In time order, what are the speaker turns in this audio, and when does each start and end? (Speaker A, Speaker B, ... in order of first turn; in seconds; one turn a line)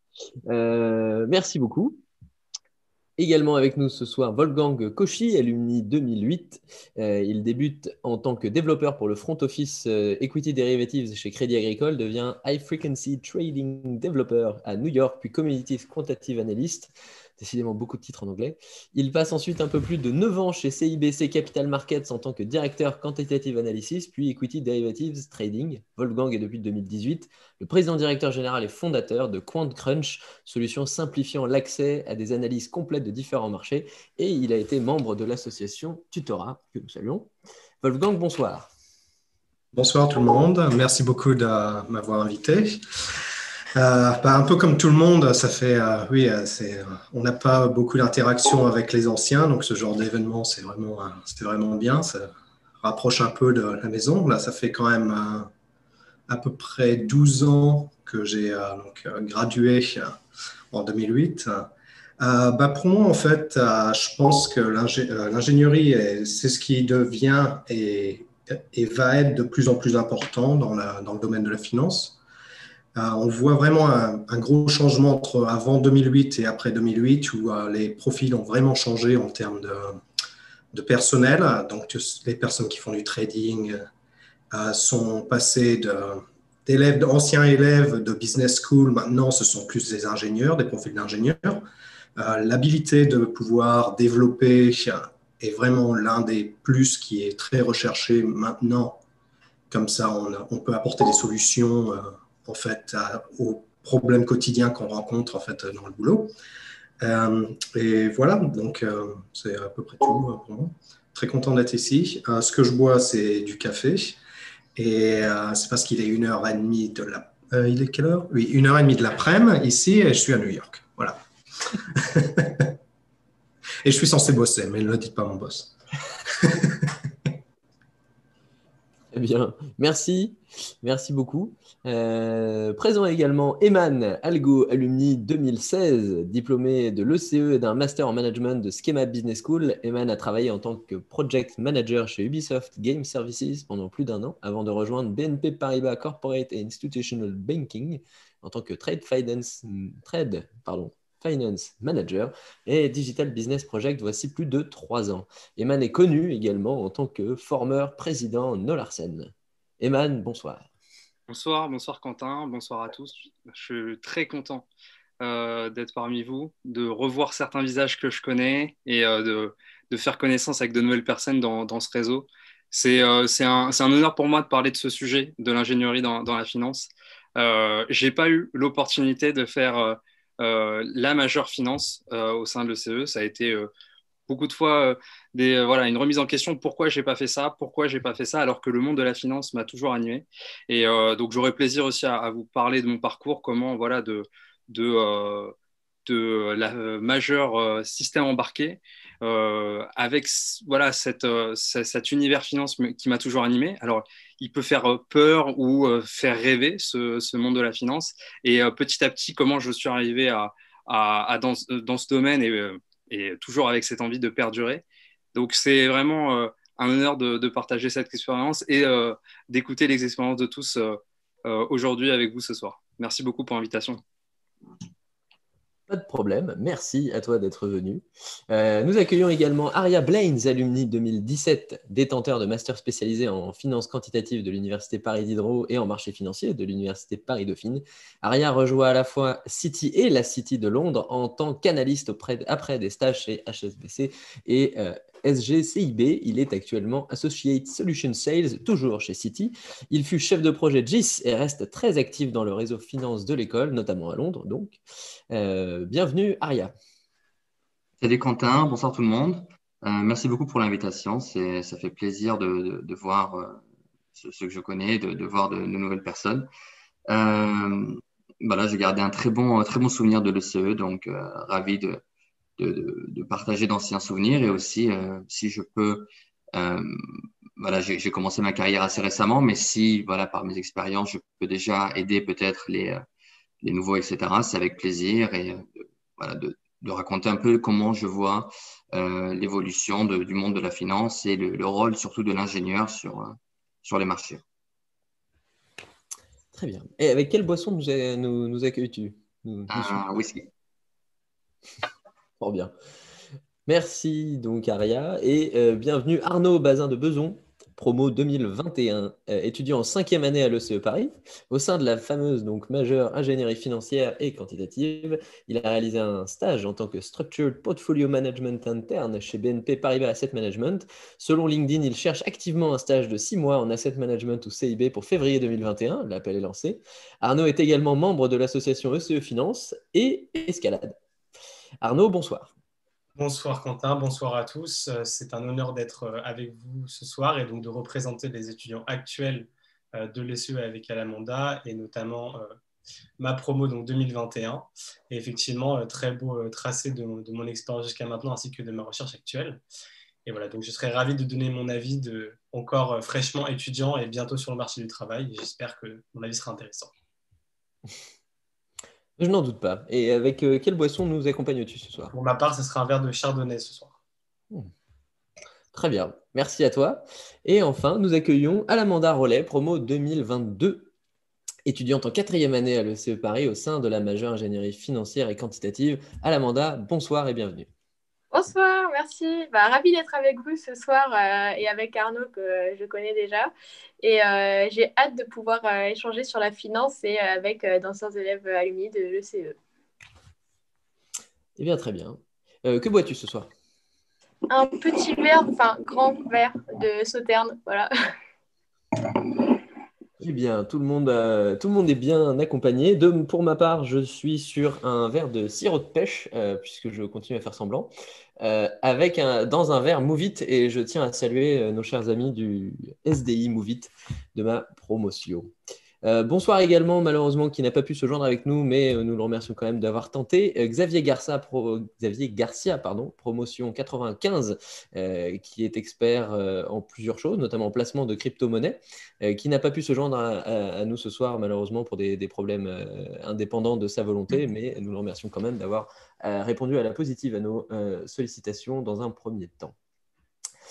Speaker A: 0.5-2.0
Speaker A: 3.2-37.3
Speaker A: 37.8-38.7
Speaker B: 39.7-42.8
Speaker B: 43.8-55.5
Speaker B: 56.3-60.2
Speaker B: 60.7-72.2
Speaker B: 73.0-80.0
Speaker B: 80.7-83.8
Speaker B: 84.5-99.0
Speaker B: 99.7-106.3
Speaker B: 107.0-114.2
Speaker B: 114.8-121.2
Speaker B: 121.8-122.8
Speaker B: 123.8-125.7
Speaker B: 126.3-127.0
Speaker A: 129.1-160.7
Speaker C: 161.3-164.7
Speaker C: 165.2-183.7
Speaker C: 184.3-195.5
Speaker C: 196.1-214.8
Speaker C: 215.3-224.0
Speaker A: 225.9-254.8
Speaker A: 255.3-256.7
Speaker D: 258.0-263.6
Speaker D: 264.1-266.5
Speaker D: 267.1-272.0
Speaker D: 272.6-283.1
Speaker D: 283.6-294.4
Speaker A: 296.5-300.1
Speaker D: 299.7-300.5
Speaker A: 302.4-302.7
Speaker A: 303.7-331.0
Speaker A: 331.8-332.5
Speaker E: 333.2-342.5
Speaker E: 343.2-349.6
Speaker E: 350.3-356.9
Speaker A: 359.2-362.1
Speaker E: 362.1-364.0
Speaker A: 365.7-370.9
Speaker A: 371.7-377.7
Speaker F: 378.3-389.6
Speaker A: 391.6-393.5
Speaker F: 394.5-397.9
Speaker A: 400.2-439.8